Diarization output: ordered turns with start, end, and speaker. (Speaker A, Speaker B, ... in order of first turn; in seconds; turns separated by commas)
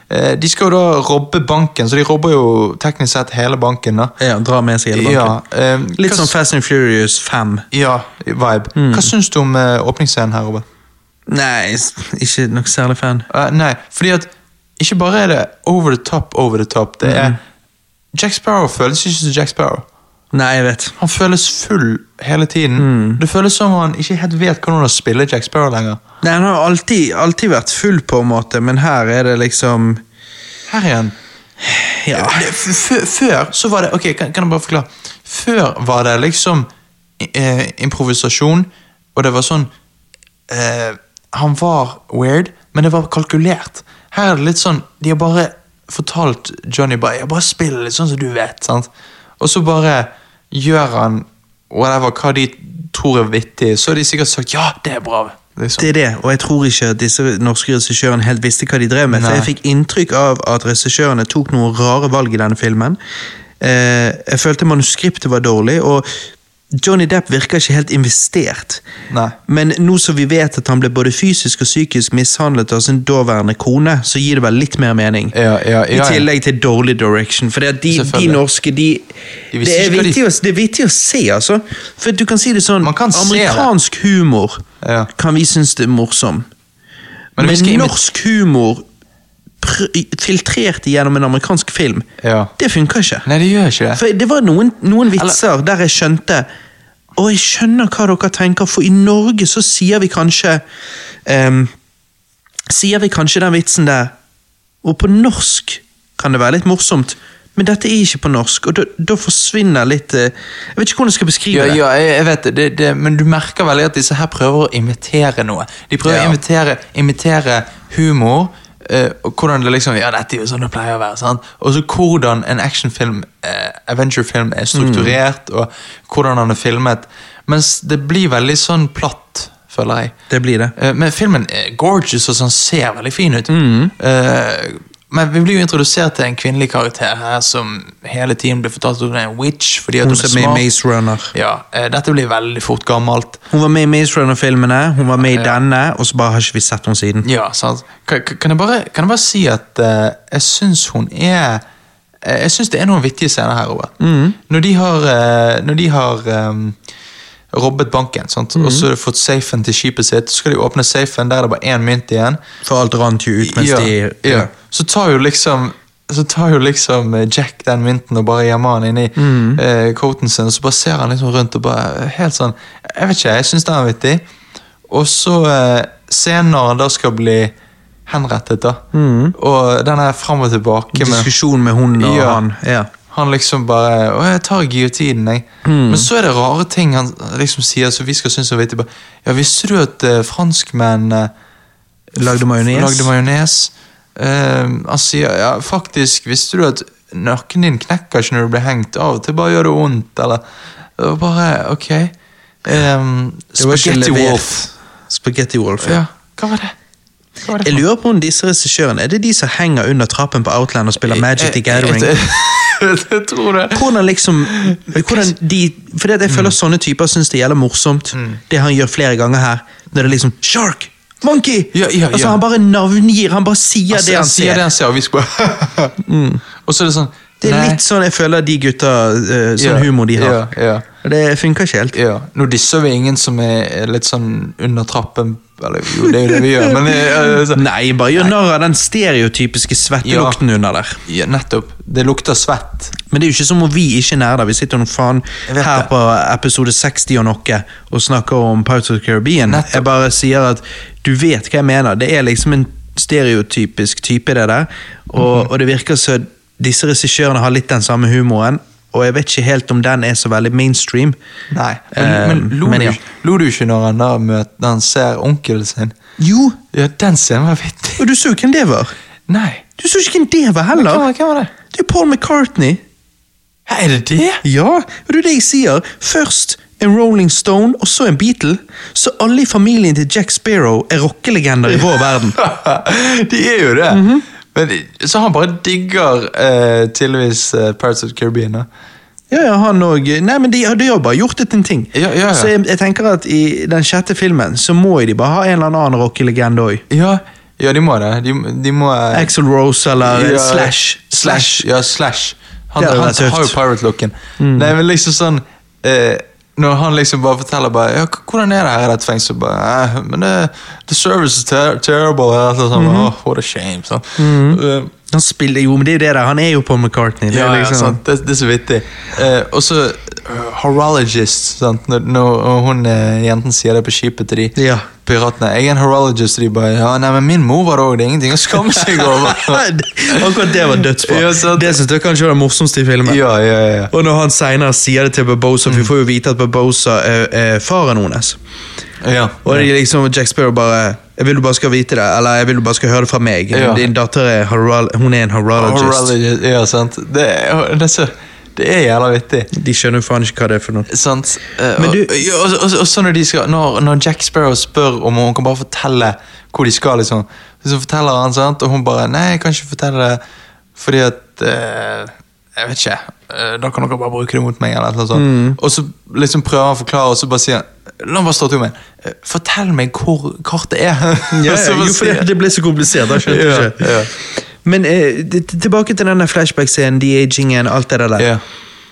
Speaker A: 0.1-4.1, Speaker B: 4.2-5.3, Speaker A: 4.9-6.3, Speaker B: 6.0-7.7, Speaker A: 7.7-10.6, Speaker B: 8.8-9.1, Speaker B: 11.3-13.3, Speaker A: 13.3-17.4, Speaker B: 17.0-17.4, Speaker A: 18.1-19.8, Speaker B: 20.3-20.9, Speaker A: 21.0-26.0, Speaker B: 22.8-23.2, Speaker B: 26.2-30.0, Speaker A: 30.7-31.1, Speaker B: 31.6-32.5, Speaker A: 32.1-36.7, Speaker A: 37.2-39.7, Speaker A: 40.5-55.9, Speaker B: 55.8-63.0, Speaker A: 59.1-59.5, Speaker B: 63.6-66.0, Speaker B: 66.7-68.8, Speaker A: 69.1-69.3, Speaker B: 69.5-75.3, Speaker A: 75.3-76.3, Speaker B: 75.9-84.6, Speaker A: 77.9-78.4, Speaker A: 79.5-80.2, Speaker A: 82.8-83.7, Speaker A: 84.8-85.1, Speaker B: 85.2-86.5, Speaker A: 87.4-88.0, Speaker B: 87.4-88.8, Speaker B: 89.6-92.0, Speaker A: 92.2-92.5, Speaker B: 92.6-93.2, Speaker A: 93.2-94.0, Speaker B: 93.9-96.5, Speaker B: 97.2-100.6, Speaker B: 101.2-101.7, Speaker B: 102.7-104.1, Speaker B: 104.8-111.8, Speaker A: 111.5-130.1, Speaker B: 116.0-116.4, Speaker B: 124.7-125.2, Speaker B: 130.3-130.7, Speaker A: 130.8-140.7, Speaker B: 133.5-133.9, Speaker B: 140.0-141.3, Speaker A: 141.3-143.4, Speaker B: 143.5-147.2, Speaker A: 145.2-145.6, Speaker A: 147.2-151.6, Speaker A: 152.2-153.9, Speaker B: 154.0-154.4, Speaker A: 154.5-156.8, Speaker A: 157.5-162.4, Speaker B: 158.5-158.9, Speaker B: 162.6-164.5, Speaker A: 163.4-174.2, Speaker B: 169.2-169.6, Speaker A: 174.9-177.5, Speaker A: 178.1-178.8, Speaker B: 178.9-179.3, Speaker A: 179.3-181.3, Speaker B: 180.9-182.9, Speaker A: 181.9-182.4, Speaker A: 183.1-191.3, Speaker B: 185.6-186.1, Speaker A: 192.2-200.4, Speaker B: 192.2-193.1, Speaker A: 201.0-202.1, Speaker A: 202.6-204.7, Speaker B: 203.6-206.0, Speaker A: 205.8-206.7, Speaker A: 207.4-207.8, Speaker B: 207.6-212.2, Speaker A: 211.0-213.8, Speaker B: 213.7-224.6, Speaker A: 214.4-215.3, Speaker A: 216.3-216.5, Speaker A: 218.1-218.4, Speaker A: 221.7-222.4, Speaker A: 223.9-226.0, Speaker B: 226.0-226.4, Speaker A: 226.6-227.8, Speaker B: 227.4-230.4, Speaker A: 229.6-230.8, Speaker B: 231.0-231.9, Speaker A: 231.9-237.7, Speaker B: 236.3-241.0, Speaker A: 240.0-240.4, Speaker A: 241.1-242.9, Speaker B: 243.1-261.1, Speaker A: 245.5-245.9, Speaker A: 249.5-249.8, Speaker A: 261.5-265.9, Speaker B: 261.9-263.0, Speaker B: 266.2-266.6, Speaker A: 266.7-268.1, Speaker B: 268.0-268.9, Speaker A: 269.3-269.6, Speaker B: 269.8-271.1, Speaker A: 270.7-271.5, Speaker B: 271.7-272.8, Speaker A: 273.7-274.4, Speaker B: 274.4-282.4, Speaker A: 281.7-288.7, Speaker B: 283.9-284.2, Speaker B: 289.3-296.8, Speaker A: 291.9-292.5, Speaker A: 296.9-299.3, Speaker B: 299.1-301.6, Speaker A: 300.0-314.9, Speaker B: 302.8-303.6, Speaker B: 304.4-304.7, Speaker B: 312.7-313.1, Speaker B: 314.2-318.0, Speaker A: 317.3-331.8, Speaker B: 324.6-324.9, Speaker B: 328.7-333.2, Speaker A: 333.0-333.9, Speaker B: 333.9-338.4, Speaker A: 339.0-339.7, Speaker B: 339.4-346.1, Speaker A: 343.5-343.9, Speaker A: 345.6-349.5, Speaker B: 349.5-350.9, Speaker A: 350.9-360.2, Speaker B: 351.8-352.1, Speaker A: 360.8-372.3, Speaker B: 365.1-365.6, Speaker B: 371.3-378.3, Speaker A: 373.0-374.1, Speaker A: 378.2-378.4